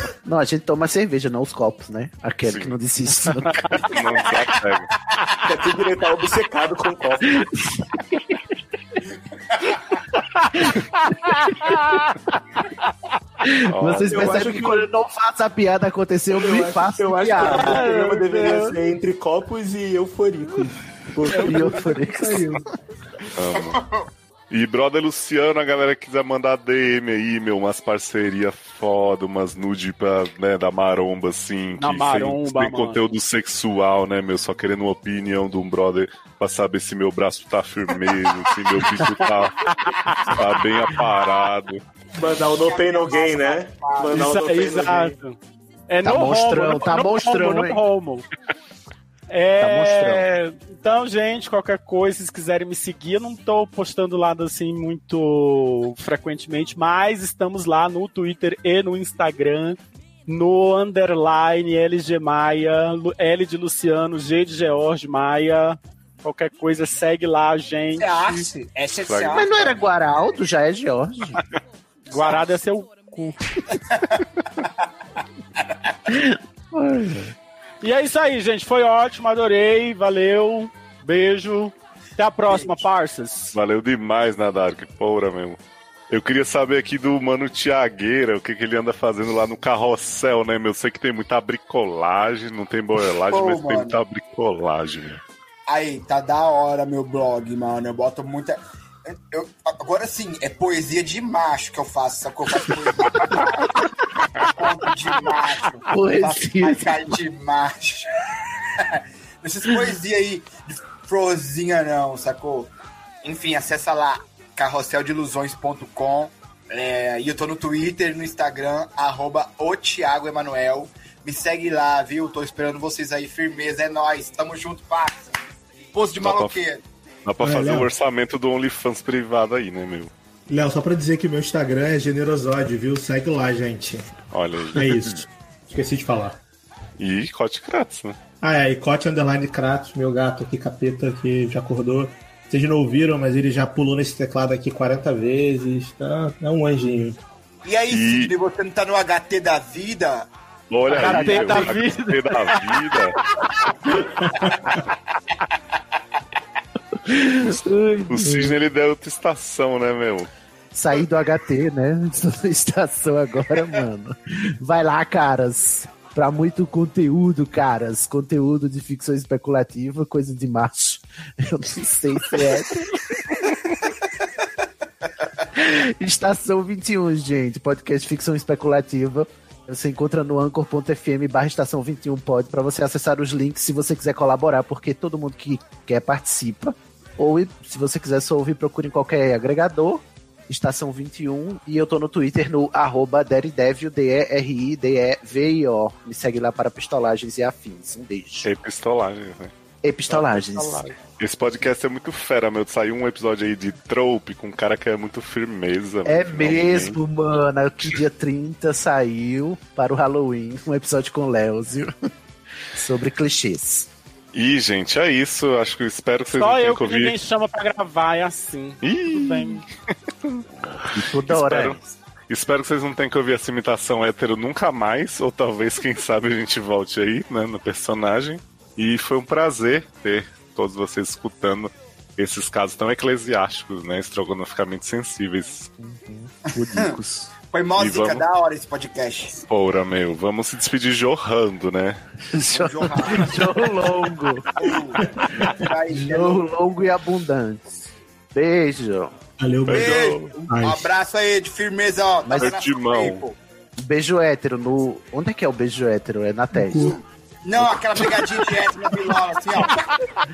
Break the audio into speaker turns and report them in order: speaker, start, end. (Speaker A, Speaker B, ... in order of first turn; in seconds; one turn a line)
Speaker A: 0.2-3.9
Speaker B: 2.5-4.9
Speaker C: 3.9-5.6
Speaker D: 5.5-7.5
Speaker A: 7.2-8.5
Speaker C: 9.5-10.0
Speaker E: 10.2-12.1
Speaker A: 13.4-17.8
Speaker B: 13.7-14.4
Speaker D: 14.0-14.9
Speaker D: 16.3-22.6
Speaker E: 17.4-18.8
Speaker A: 21.3-22.6
Speaker B: 23.4-23.8
Speaker C: 23.5-24.1
Speaker B: 24.5-41.8
Speaker E: 31.8-33.0
Speaker E: 39.7-40.4
Speaker D: 42.2-45.1
Speaker C: 42.2-44.7
Speaker E: 44.1-45.4
Speaker E: 45.9-48.2
Speaker A: 46.0-47.8
Speaker E: 49.3-68.5
Speaker A: 49.6-50.3
Speaker C: 68.0-69.8
Speaker B: 69.0-69.5
Speaker A: 69.3-71.4
Speaker E: 72.1-73.6
Speaker C: 72.1-72.5
Speaker C: 73.8-74.7
Speaker A: 76.1-77.3
Speaker E: 77.8-83.5
Speaker C: 82.5-82.8
Speaker B: 83.5-85.6
Speaker B: 86.1-95.2
Speaker C: 93.3-94.0
Speaker C: 95.7-103.8
Speaker C: 104.4-108.1
Speaker A: 105.9-107.1
Speaker C: 108.8-125.3
Speaker C: 125.9-126.8
Speaker B: 126.2-126.6
Speaker B: 127.2-130.1
Speaker D: 127.4-127.9
Speaker D: 130.5-134.1
Speaker B: 134.3-135.0
Speaker D: 134.7-136.4
Speaker B: 137.0-138.2
Speaker D: 138.4-147.2
Speaker C: 147.7-150.3
Speaker B: 147.9-148.3
Speaker B: 150.7-153.2
Speaker E: 150.9-153.9
Speaker C: 151.1-151.6
Speaker A: 157.0-158.5
Speaker B: 158.1-160.3
Speaker A: 160.7-172.9
Speaker A: 175.5-198.5
Speaker B: 198.4-199.5
Speaker A: 199.8-200.8
Speaker B: 200.1-207.0
Speaker A: 206.1-211.9
Speaker A: 212.7-213.9
Speaker B: 214.3-217.2
Speaker E: 216.4-219.6
Speaker B: 218.8-235.7
Speaker A: 220.9-221.8
Speaker A: 235.8-237.3
Speaker C: 236.5-236.9
Speaker C: 237.5-239.4
Speaker B: 237.8-238.3
Speaker B: 239.5-242.0
Speaker A: 242.3-244.5
Speaker C: 242.5-243.6
Speaker C: 244.6-246.4
Speaker D: 245.0-245.6
Speaker A: 245.9-247.7
Speaker A: 248.3-249.2
Speaker D: 249.4-250.9
Speaker B: 249.7-250.3
Speaker C: 249.7-253.4
Speaker A: 252.3-252.5
Speaker B: 252.4-253.2
Speaker A: 253.8-257.0
Speaker D: 256.6-257.0
Speaker C: 256.8-260.0
Speaker A: 257.6-258.2